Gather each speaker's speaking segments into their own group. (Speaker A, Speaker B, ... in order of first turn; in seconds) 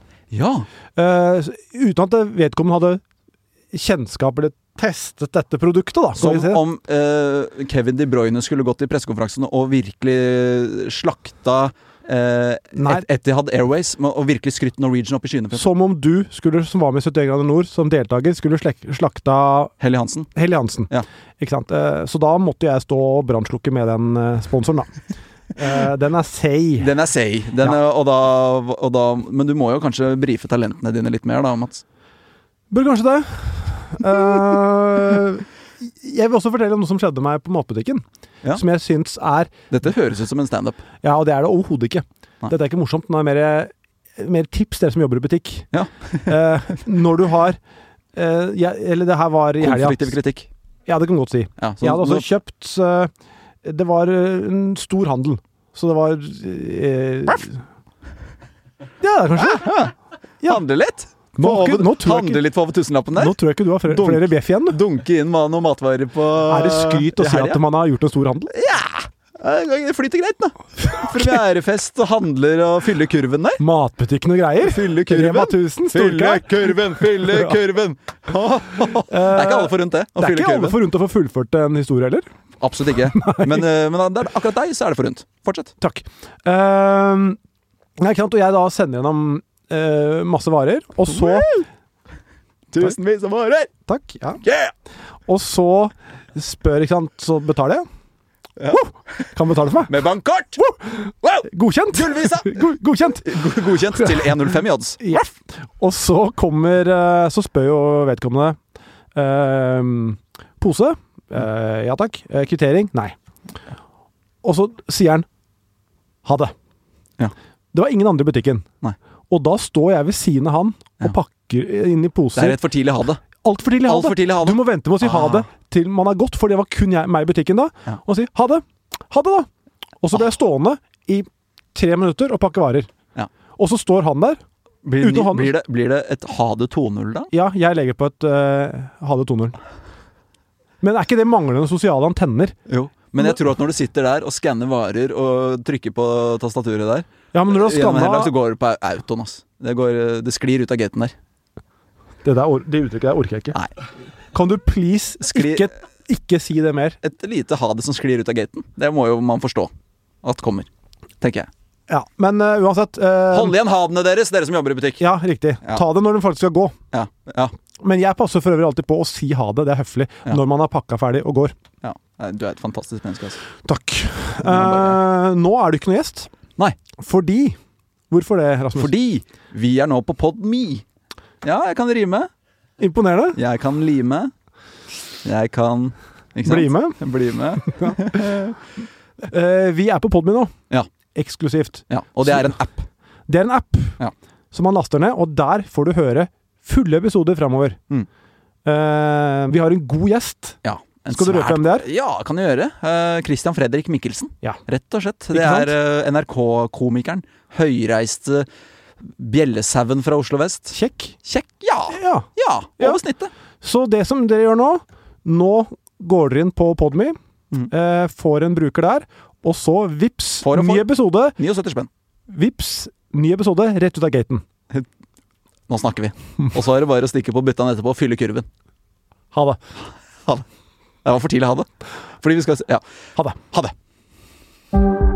Speaker A: 0.3-0.7, 6.2-15.7, 19.8-20.4, 26.8-31.8, 39.7-40.8, 45.7-46.3, 49.6-50.5, 51.6-52.3, 59.4-59.9, 60.5-67.6, 68.5-73.6, 74.6-80.8, 82.6-85.7, 91.1-91.7, 92.7-93.7, 94.4-94.7, 99.9-100.7, 101.2-102.7, 103.2-105.3, 122.3-123.2, 123.8-125.5, 134.8-137.3, 142.7-151.1, 155.2-155.7, 157.0-159.7, 160.2-160.7, 161.2-161.5, 163.3-165.1, 166.9-167.5, 171.8-173.4, 174.4-175.0, 178.8-180.8, 181.4-182.3, 183.3-184.3, 185.2-188.5, 191.9-192.9, 200.6-208.5, 209.0-213.3, 220.4-221.9, 225.7-228.5, 231.1-231.7, 232.2-232.8
Speaker B: 1.0-3.0, 3.7-6.6, 12.8-13.1, 15.5-19.7, 20.3-25.0, 25.5-26.9, 32.7-39.5, 41.0-45.7, 46.3-47.6, 48.1-50.2, 50.9-53.1, 53.6-57.6, 59.0-59.8, 61.3-62.4, 63.1-64.8, 66.5-68.5, 73.6-77.5, 79.1-82.3, 83.1-83.6, 85.8-87.4, 88.0-91.6, 93.9-94.4, 95.3-97.8, 98.7-99.9, 100.6-103.4, 105.0-108.6, 109.2-113.2, 114.4-115.3, 116.2-116.5, 117.7-118.7, 119.3-122.6, 123.4-129.5, 130.0-132.9, 133.6-134.4, 135.0-135.6, 137.3-139.6, 140.8-142.6, 147.3-148.3, 152.2-153.6, 154.3-157.0, 161.9-163.6, 165.0-166.8, 167.8-171.6, 173.6-176.3, 177.0-177.6, 178.1-178.9, 182.8-183.4, 186.4-187.0, 187.6-187.9, 189.3-190.5, 191.2-192.6, 193.3-194.0, 194.5-197.8, 198.7-201.9, 205.3-205.7, 210.7-211.2, 211.9-213.0, 213.6-217.2, 217.7-221.4, 222.3-224.4, 229.3-229.6